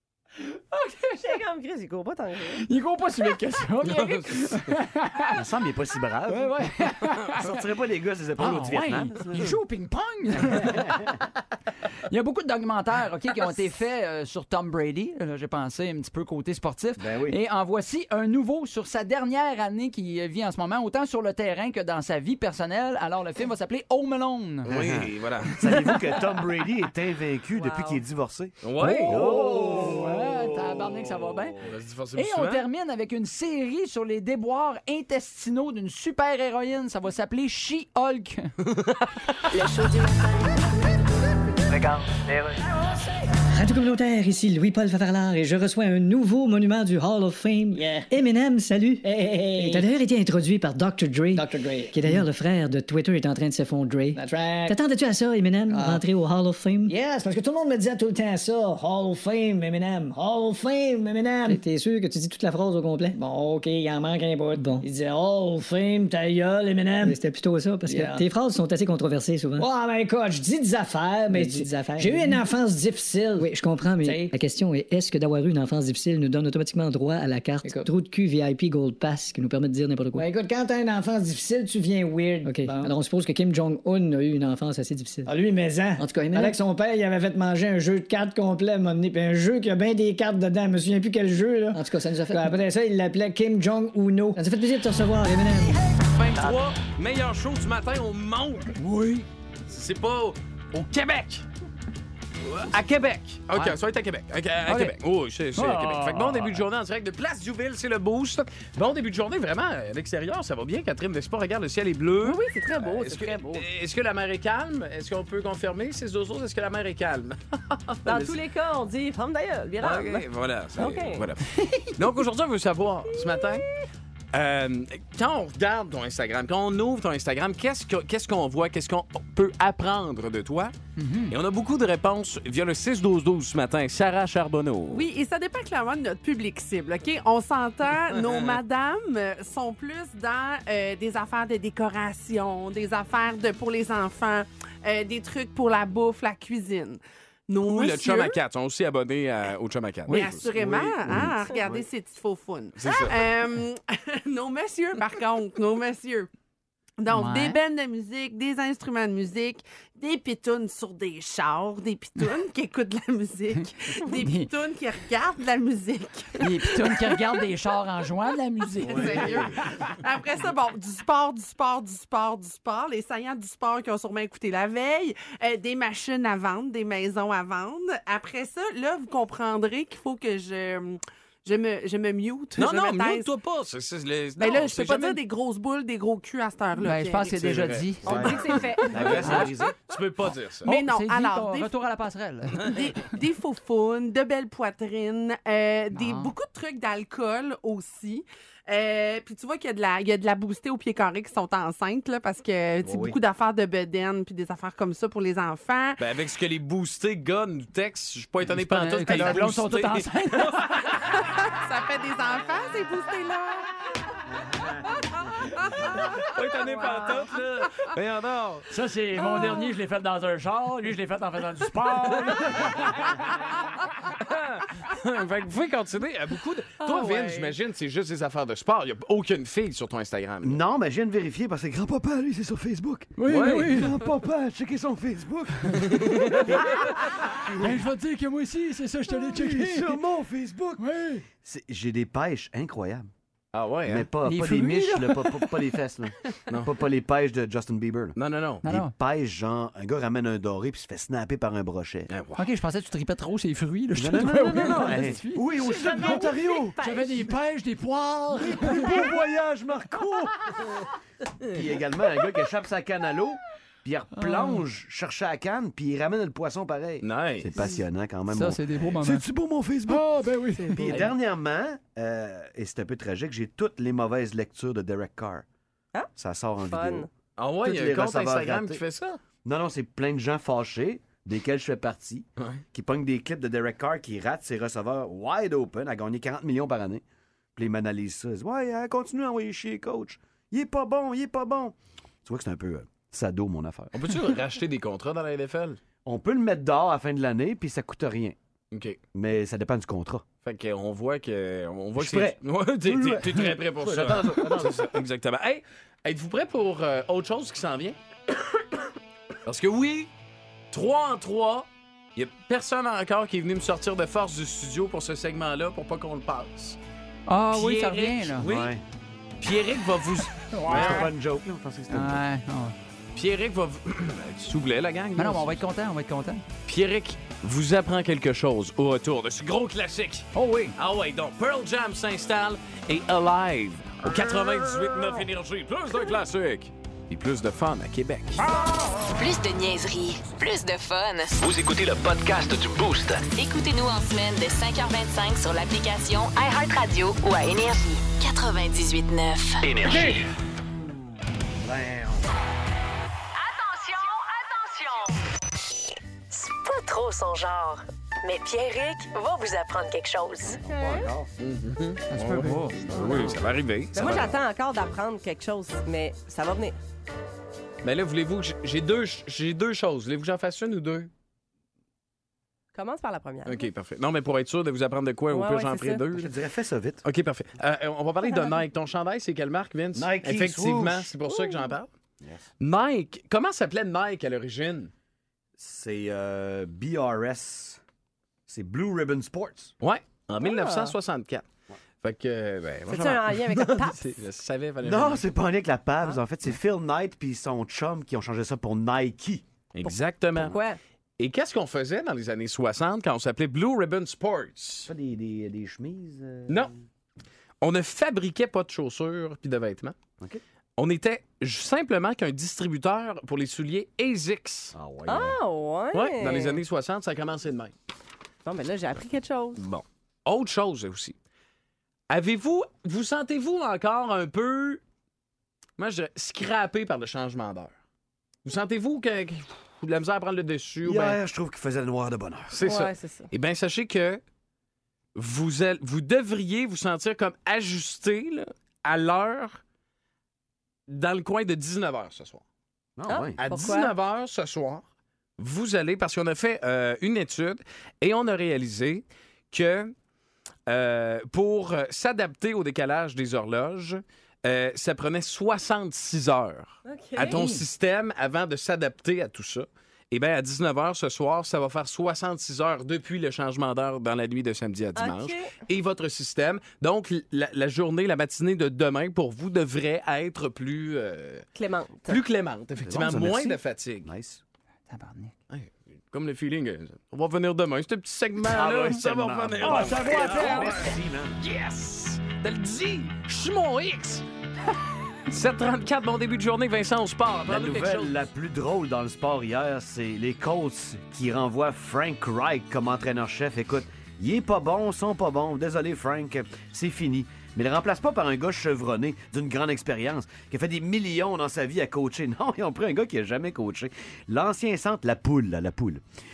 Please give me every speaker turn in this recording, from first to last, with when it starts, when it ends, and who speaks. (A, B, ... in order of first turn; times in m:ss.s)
0:00.5-0:01.3 A
0:01.2-0:02.6 B
0:02.6-0:05.4 A
0:03.9-0:04.6 C
0:05.3-0:06.7 D
0:06.3-0:07.5 A
0:07.3-0:09.6 D
0:08.4-0:11.1 A
0:10.4-0:11.1 D
0:12.1-0:24.7 A
0:17.0-0:17.4 D
0:24.7-0:25.9 C
0:24.7-0:31.5 D
0:27.6-0:28.0 B
0:28.6-0:29.6 C
0:28.8-0:31.6 A
0:31.6-0:32.6 C
0:32.2-0:38.5 A
0:38.7-0:39.1 C
0:39.5-0:40.5 E
0:43.5-0:56.9 F
0:47.7-0:48.1 G
0:49.0-0:49.9 G
0:51.3-0:52.2 G
0:54.1-0:54.8 G
0:55.7-0:56.0 G
0:56.9-1:01.6 G
1:01.5-1:03.1 F
1:03.1-1:07.2 G
1:04.6-1:04.8 F
1:07.0-1:09.7 F
1:07.9-1:08.2 G
1:09.6-1:13.5 G
1:11.3-1:12.4 F
1:13.4-1:20.3 F
1:14.0-1:14.3 G
1:20.2-1:22.9 G
1:22.4-1:25.3 F
1:25.3-1:34.4 G
1:26.0-1:26.6 F
1:31.7-1:32.6 F
1:34.4-1:35.7 F
1:36.0-1:38.8 C
1:38.8-1:39.3 A
1:39.7-1:41.4 C
1:42.4-1:58.4 C
1:44.7-1:45.0 A
1:45.6-1:46.6 A
1:52.2-1:53.6 B
1:58.1-2:00.2 B
1:59.8-2:03.7 C
2:00.8-2:01.3 B
2:03.2-2:03.6 B
2:04.3-2:10.7 C
2:11.0-2:11.4 A
2:11.3-2:15.0 C
2:14.9-2:28.4 H
2:18.1-2:18.6 C
2:27.6-2:30.5 C
2:30.1-2:30.4 A
2:30.1-2:36.3 H
2:30.6-2:31.8 D
2:32.8-2:33.2 C
2:37.0-2:47.2 H
2:37.1-2:37.6 A
2:44.2-2:44.5 A
2:46.4-2:49.5 A
2:48.8-2:49.6 D
2:48.8-3:03.3 H
3:02.6-3:05.2 C
3:04.4-3:07.4 H
3:06.8-3:08.3 A
3:07.4-3:10.7 C
3:08.0-3:09.8 D
3:08.1-3:09.5 B
3:08.3-3:09.5 H
3:10.6-3:11.7 H
3:10.6-3:12.8 A
3:12.6-3:26.0 H
3:15.9-3:16.3 A
3:22.8-3:23.2 D
3:26.0-3:31.0 C
3:28.5-3:30.8 A
3:31.0-3:33.8 H
3:34.4-3:35.1 D
3:36.0-3:38.7 C
3:38.7-3:43.3 A
3:44.1-3:50.6 C
3:47.0-3:47.4 H
3:50.4-3:57.8 D
3:53.2-3:54.0 A
3:53.3-3:53.9 C
3:55.8-3:56.5 C
3:56.8-4:00.0 A
3:59.1-4:03.1 D
4:00.8-4:01.2 A
4:03.5-4:04.1 C
4:03.9-4:12.1 D
4:04.2-4:05.7 A
4:08.2-4:08.6 C
4:08.6-4:08.9 A
4:12.1-4:12.4 C
4:12.4-4:19.1 A
4:14.0-4:16.8 D
4:15.6-4:17.3 B
4:18.3-4:20.9 D
4:21.4-4:35.4 D
4:24.1-4:24.6 A
4:27.0-4:27.5 C
4:28.3-4:29.2 A
4:29.9-4:31.1 A
4:36.2-4:37.1 D
4:36.6-4:37.1 B
4:37.4-4:39.2 C
4:37.6-4:38.8 D
4:39.4-4:47.0 D
4:42.4-4:42.6 C
4:47.6-4:54.3 D
4:53.9-4:55.8 C
4:56.0-4:58.4 D
4:58.7-4:59.0 C
4:59.1-5:00.3 D
5:00.4-5:08.0 C
5:02.0-5:05.0 D
5:09.5-5:10.1 C
5:10.7-5:16.8 C
5:17.3-5:18.4 A
5:17.5-5:18.7 C
5:18.4-5:18.8 D
5:19.4-5:21.1 C
5:20.5-5:21.1 A
5:20.7-5:22.2 D
5:21.9-5:22.7 A
5:23.2-5:25.6 C
5:25.2-5:26.4 A
5:26.6-5:38.5 C
5:30.4-5:30.8 A
5:39.1-5:41.4 I
5:41.4-5:43.2 J
5:43.3-5:49.6 I
5:49.6-5:50.2 J
5:51.6-5:52.2 D
5:53.4-5:55.2 E
5:56.3-6:00.6 E
6:00.5-6:01.3 D
6:00.5-6:01.1 B
6:01.4-6:04.4 C
6:02.1-6:02.8 A
6:03.0-6:03.3 D
6:03.9-6:06.8 B
6:07.8-6:11.1 C
6:12.7-6:13.6 B
6:13.4-6:16.3 C
6:15.3-6:16.0 B
6:16.1-6:17.0 D
6:17.0-6:21.9 C
6:19.9-6:21.1 D
6:21.3-6:21.7 B
6:22.6-6:24.9 C
6:25.6-6:27.8 D
6:28.5-6:29.7 D
6:29.8-6:31.4 C
6:30.4-6:30.9 B
6:32.0-6:35.2 C
6:32.9-6:34.1 B
6:34.8-6:39.4 D
6:39.8-6:40.6 C
6:40.4-6:40.8 B
6:41.2-6:44.9 C
6:44.8-6:46.7 D
6:47.6-6:50.0 C
6:50.8-6:54.7 C
6:54.7-6:55.4 D
6:55.1-6:56.6 B
6:55.9-6:57.7 C
6:58.4-6:59.6 B
6:59.6-7:01.2 C
7:02.1-7:04.8 C
7:05.8-7:07.8 C
7:08.4-7:11.2 C
7:10.8-7:12.7 D
7:12.5-7:14.2 C
7:12.6-7:13.3 B
7:15.2-7:19.6 C
7:20.9-7:22.4 C
7:23.0-7:23.4 D
7:23.1-7:23.9 B
7:23.4-7:24.8 C
7:25.4-7:29.9 C
7:30.7-7:51.5 C
7:36.9-7:37.4 B
7:37.2-7:37.6 A
7:45.0-7:45.6 B
7:51.6-7:52.2 B
7:52.1-7:54.1 C
7:52.8-7:54.4 D
7:54.9-7:55.3 A
7:55.5-8:04.2 C
7:58.4-8:01.4 D
7:59.6-8:00.9 A
8:05.3-8:08.2 C
8:07.5-8:26.0 D